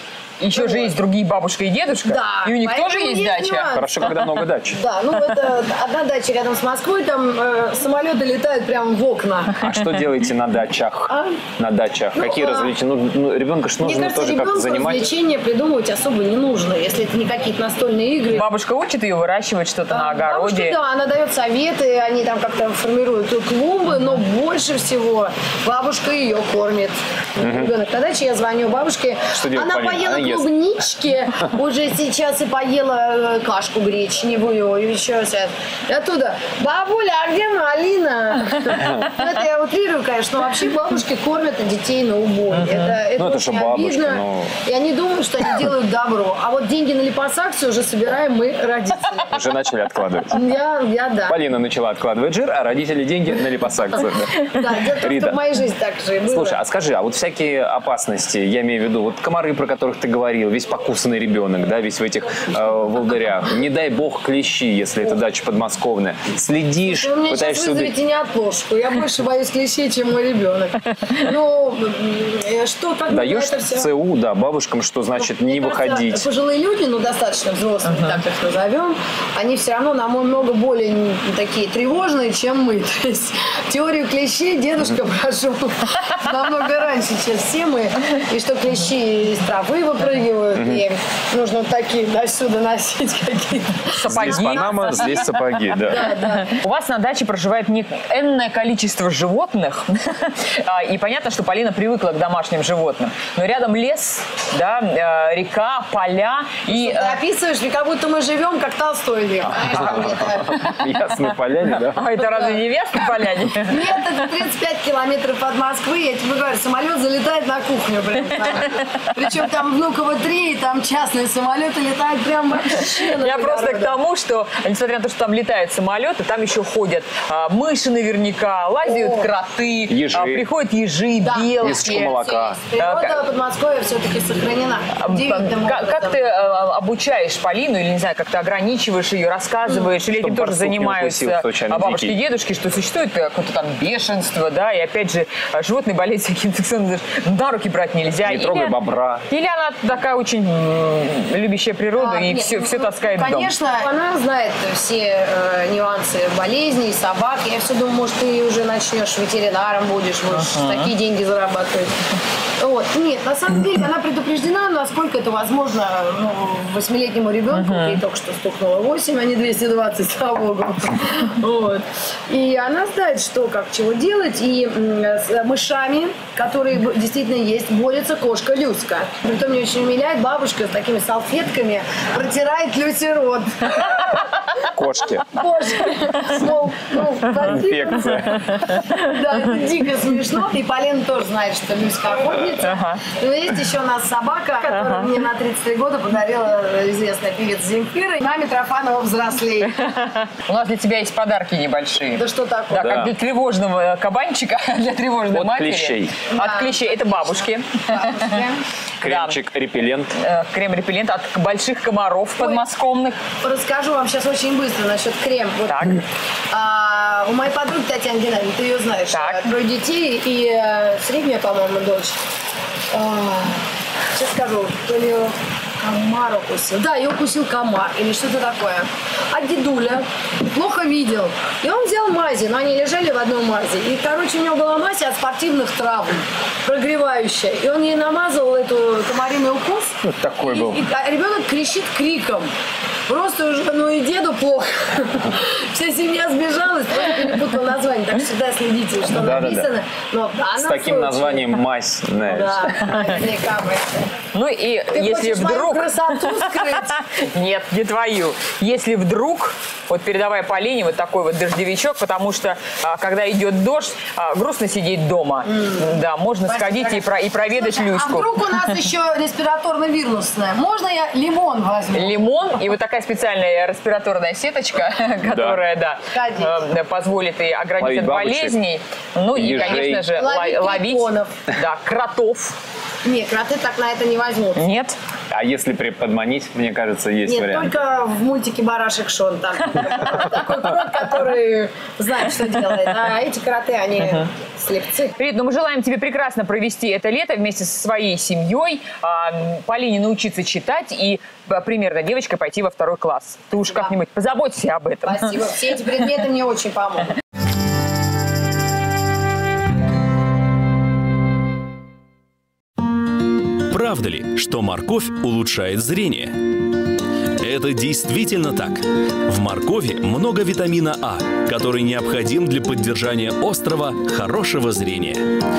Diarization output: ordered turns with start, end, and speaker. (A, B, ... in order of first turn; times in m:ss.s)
0:00.4-0:04.1 A
0:00.5-0:01.0 B
0:02.0-0:04.1 B
0:03.8-0:04.8 C
0:04.7-0:09.6 B
0:09.6-0:15.1 C
0:11.1-0:11.4 B
0:12.2-0:12.7 B
0:13.8-0:18.5 B
0:18.3-0:20.8 A
0:19.9-0:49.4 B
0:27.4-0:27.7 C
0:29.3-0:30.5 C
0:43.2-0:44.6 C
0:49.3-0:50.4 C
0:50.3-0:51.4 B
0:51.3-0:55.4 C
0:54.5-0:56.6 B
0:56.2-1:07.9 C
1:06.8-1:13.9 B
1:13.1-1:16.3 C
1:15.3-1:35.3 B
1:30.6-1:30.8 C
1:33.9-1:35.4 A
1:34.1-1:36.2 C
1:35.9-1:36.5 B
1:35.9-1:47.2 A
1:46.7-1:50.8 B
1:49.5-1:52.1 C
1:51.9-1:54.3 A
1:53.7-2:04.0 B
2:02.9-2:12.2 A
2:08.8-2:09.3 B
2:09.9-2:10.5 C
2:11.2-2:16.2 B
2:11.6-2:12.6 C
2:12.8-2:13.2 A
2:14.9-2:33.5 A
2:20.1-2:22.2 C
2:28.2-2:29.3 C
2:31.9-2:42.0 B
2:40.3-2:40.9 A
2:42.6-3:04.1 B
2:47.5-2:48.0 A
3:04.6-3:05.3 C
3:05.3-3:19.8 B
3:07.4-3:08.8 C
3:08.3-3:09.0 A
3:12.6-3:13.0 A
3:19.7-3:28.4 A
3:22.1-3:23.1 B
3:22.7-3:23.1 C
3:25.3-3:26.3 C
3:26.3-3:28.6 B
3:29.0-3:30.1 C
3:29.0-3:29.4 A
3:30.2-3:33.2 A
3:33.4-3:42.2 B
3:35.7-3:36.0 A
3:39.1-3:39.4 A
3:42.9-4:02.5 B
4:00.0-4:00.8 C
4:03.1-4:11.6 B
4:09.1-4:09.7 C
4:10.6-4:13.0 C
4:12.3-4:14.2 B
4:14.3-4:28.6 A
4:14.9-4:17.0 B
4:25.5-4:26.0 B
4:26.5-4:32.2 B
4:31.9-4:42.6 A
4:35.3-4:35.6 C
4:36.1-4:36.7 B
4:37.8-4:38.6 C
4:39.3-4:40.1 C
4:39.6-4:41.3 B
4:43.0-4:44.7 B
4:44.6-4:45.0 A
4:45.3-4:47.7 C
4:47.3-4:55.1 B
4:55.2-5:05.5 A
5:03.6-5:03.9 B
5:05.0-5:07.2 B
5:13.7-5:16.5 D
5:17.4-5:25.2 D